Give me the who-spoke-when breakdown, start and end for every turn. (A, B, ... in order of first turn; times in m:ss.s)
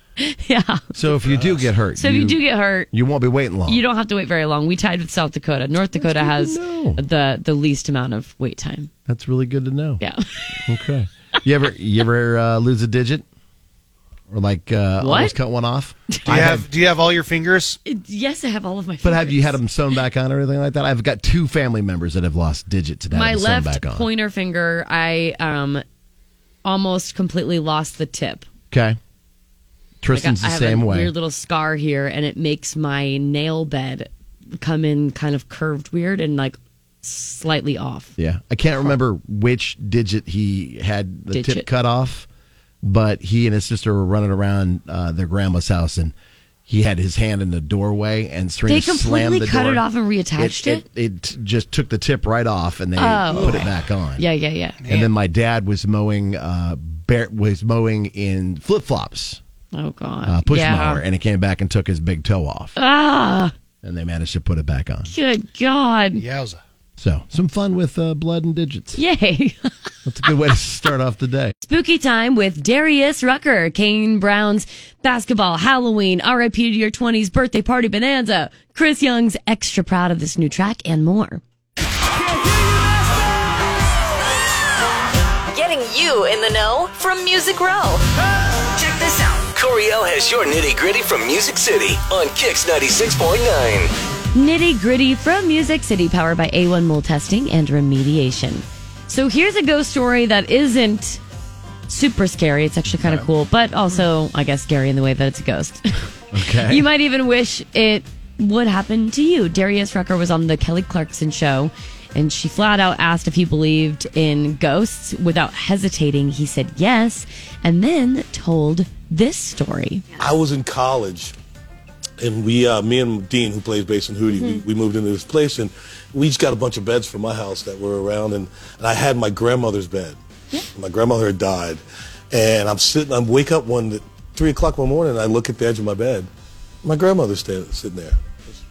0:00.2-0:00.8 A
0:00.9-0:02.4 B
0:01.1-0:01.6 C
0:02.0-0:02.9 A
0:02.9-0:03.8 B
0:03.7-0:08.9 A
0:05.9-0:07.0 B
0:09.0-0:10.0 B
0:10.0-0:10.6 A
0:10.6-0:13.2 B
0:14.3-0:16.6 B
0:15.0-0:15.4 A
0:16.2-0:17.8 C
0:17.8-0:19.6 A
0:19.0-0:24.1 B
0:23.1-0:25.8 A
0:26.6-0:28.4 A
0:28.7-0:29.0 B
0:30.0-0:31.1 B
0:30.1-0:38.1 A
0:38.2-0:42.3 B
0:41.3-0:41.7 A
0:42.8-0:46.1 B
0:46.7-0:49.8 B
0:48.7-0:50.8 A
0:50.4-0:54.2 B
0:53.0-0:54.8 A
0:53.3-0:53.7 C
0:54.8-0:55.1 C
0:54.9-0:59.4 B
0:59.7-1:01.0 A
1:00.2-1:02.7 B
1:02.8-1:03.5 A
1:03.8-1:05.1 B
1:05.1-1:06.2 A
1:06.1-1:06.6 C
1:07.0-1:09.0 B
1:08.9-1:09.7 A
1:10.0-1:11.5 B
1:11.6-1:21.4 A
1:25.5-1:28.0 D
1:28.8-1:29.4 D
1:29.5-1:33.9 E
1:34.3-1:41.2 A
1:41.9-2:00.0 A
1:43.0-1:43.2 B
1:46.3-1:46.9 B
2:00.2-2:01.3 F
2:02.2-2:10.2 F
2:10.7-2:16.3 F
2:16.8-2:18.2 F